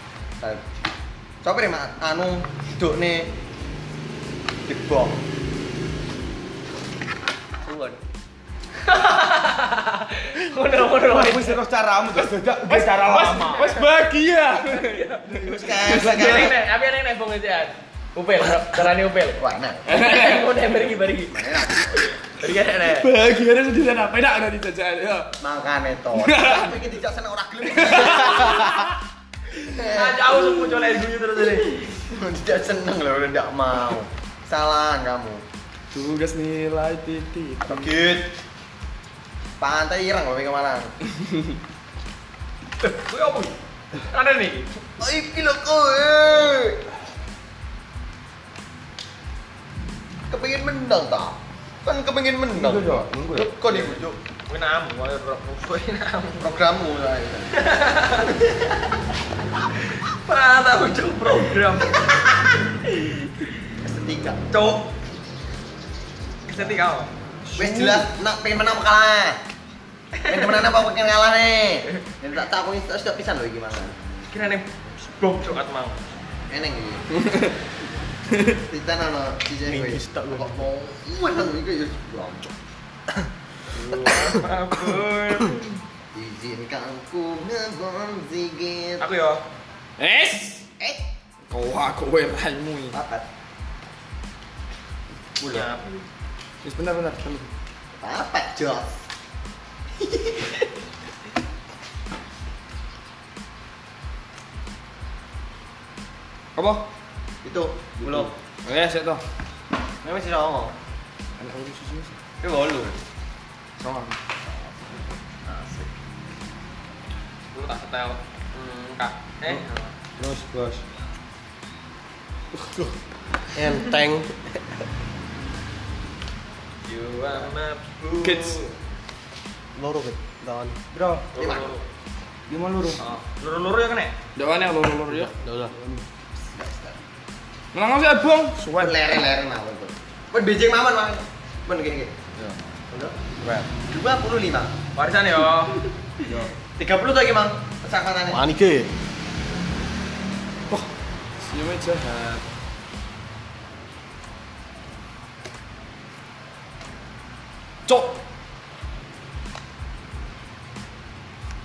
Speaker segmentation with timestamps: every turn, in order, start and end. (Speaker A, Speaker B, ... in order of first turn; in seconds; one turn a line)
Speaker A: 1.4-3.3
Speaker A: 4.7-5.2
Speaker A: 7.6-8.0
Speaker B: 8.8-11.6
Speaker C: 10.9-13.6
Speaker D: 12.7-16.5
Speaker B: 13.0-13.9
Speaker B: 14.5-21.3
Speaker A: 15.3-16.6
Speaker A: 19.4-19.8
Speaker D: 19.9-20.5
Speaker A: 21.3-22.1
Speaker B: 22.4-23.1
Speaker D: 22.9-25.3
Speaker A: 25.4-28.8
Speaker D: 26.1-26.8
Speaker D: 27.7-28.8
Speaker A: 29.6-30.2
Speaker B: 29.9-31.7
Speaker A: 32.1-35.4
Speaker D: 35.9-38.0
Speaker A: 37.6-38.3
Speaker A: 39.6-40.9
Speaker B: 42.8-43.5
Speaker B: 44.1-44.7
Speaker A: 45.0-46.8
Speaker A: 50.3-54.2
Speaker C: 52.5-53.8
Speaker B: 54.5-56.6
Speaker A: 56.4-57.5
Speaker B: 57.5-58.3
Speaker B: 60.0-62.2
Speaker A: 63.8-64.4
Speaker B: 64.5-64.8
Speaker B: 66.5-67.1
Speaker C: 67.4-68.1
Speaker A: 67.6-69.4
Speaker A: 70.2-74.0
Speaker B: 74.3-76.0
Speaker A: 76.5-77.1
Speaker A: 78.7-82.5
Speaker E: 79.7-80.5
Speaker B: 83.7-85.8
Speaker A: 86.1-89.0
Speaker B: 89.0-89.4
Speaker D: 90.0-90.6
Speaker A: 90.8-91.0
Speaker D: 91.5-93.0
Speaker A: 92.9-93.2
Speaker A: 95.4-95.7
Speaker B: 95.5-96.1
Speaker D: 96.6-97.5
Speaker A: 98.0-99.0
Speaker A: 100.0-100.5
Speaker D: 106.5-106.8
Speaker A: 107.4-108.3
Speaker C: 108.0-108.3
Speaker D: 108.6-109.2
Speaker A: 110.0-110.7
Speaker D: 111.4-112.2
Speaker A: 112.4-113.0
Speaker D: 113.8-114.2
Speaker A: 115.4-115.9
Speaker B: 117.5-119.9
Speaker C: 120.2-120.8
Speaker E: 123.5-124.4
Speaker B: 126.8-128.7
Speaker D: 128.2-128.6
Speaker E: 129.8-130.8
Speaker C: 130.9-131.3
Speaker B: 131.3-131.8
Speaker A: 131.4-131.7
Speaker C: 132.5-133.0
Speaker B: 133.0-134.1
Speaker D: 134.3-135.3
Speaker E: 135.1-135.7
Speaker C: 135.7-136.0
Speaker A: 136.5-137.0
Speaker D: 137.7-139.2
Speaker A: 138.8-142.1
Speaker A: 143.7-144.7
Speaker B: 144.9-145.8
Speaker A: 146.8-148.4
Speaker E: 148.3-148.9
Speaker D: 151.4-152.4
Speaker D: 157.8-158.2